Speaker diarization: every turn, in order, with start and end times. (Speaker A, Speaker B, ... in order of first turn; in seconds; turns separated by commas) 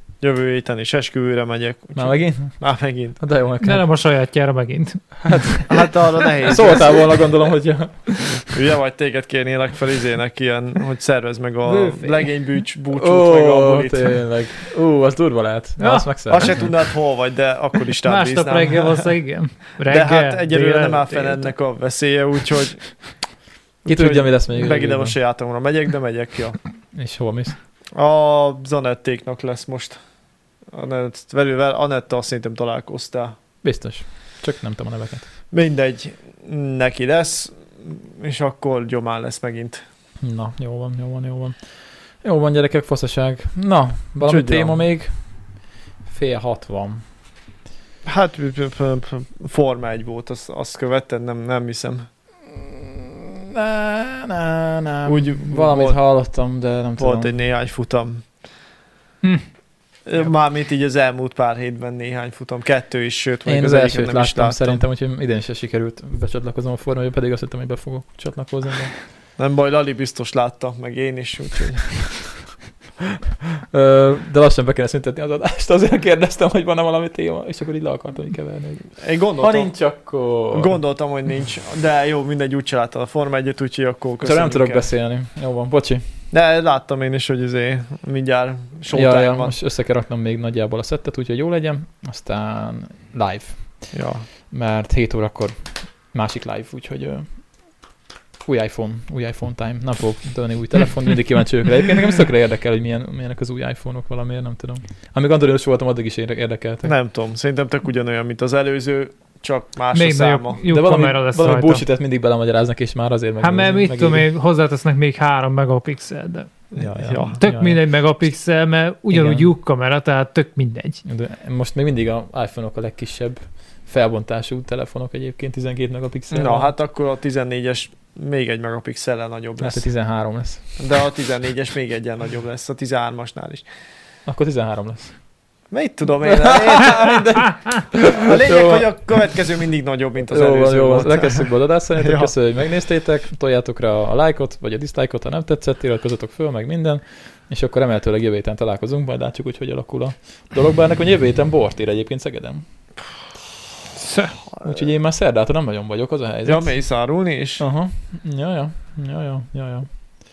Speaker A: 0.2-3.2, Speaker B: 1.9-3.9, Speaker C: 3.6-5.7, Speaker B: 5.3-5.7, Speaker A: 5.7-7.1, Speaker B: 6.4-8.4, Speaker A: 8.5-14.2, Speaker C: 11.6-12.2, Speaker B: 12.9-16.7, Speaker C: 15.8-16.1, Speaker A: 16.3-19.1, Speaker C: 18.0-21.4, Speaker A: 19.9-22.9, Speaker B: 23.9-25.1, Speaker A: 23.9-26.6, Speaker B: 26.9-27.5, Speaker A: 27.9-30.0, Speaker A: 30.7-33.3, Speaker B: 33.6-35.3, Speaker A: 35.5-39.8, Speaker B: 40.2-41.6, Speaker B: 42.2-45.1, Speaker A: 44.2-44.8, Speaker B: 46.0-47.0, Speaker A: 48.0-52.1, Speaker B: 52.5-57.3, Speaker A: 55.0-56.0, Speaker A: 57.0-58.3, Speaker A: 60.0-64.8, Speaker B: 63.5-68.9, Speaker A: 69.4-72.0, Speaker B: 73.6-80.7, Speaker A: 79.0-79.7, Speaker A: 80.5-84.8, Speaker B: 84.2-86.0, Speaker A: 86.3-89.5, Speaker B: 88.9-93.9, Speaker A: 93.9-94.2, Speaker B: 94.5-97.3, Speaker B: 98.4-106.9, Speaker A: 106.8-110.6, Speaker C: 109.9-111.8, Speaker B: 110.7-114.2, Speaker C: 113.4-116.6, Speaker A: 116.8-117.4, Speaker B: 116.8-117.8, Speaker C: 117.4-121.0, Speaker B: 119.1-119.5, Speaker B: 121.0-126.7, Speaker A: 126.3-129.8, Speaker B: 129.6-130.7, Speaker A: 130.8-133.6, Speaker B: 134.2-135.2, Speaker A: 135.7-137.4, Speaker B: 136.2-139.2, Speaker A: 138.2-142.3, Speaker B: 140.3-152.6, Speaker C: 154.0-154.3, Speaker B: 154.6-156.8, Speaker A: 156.4-157.6, Speaker B: 157.6-159.9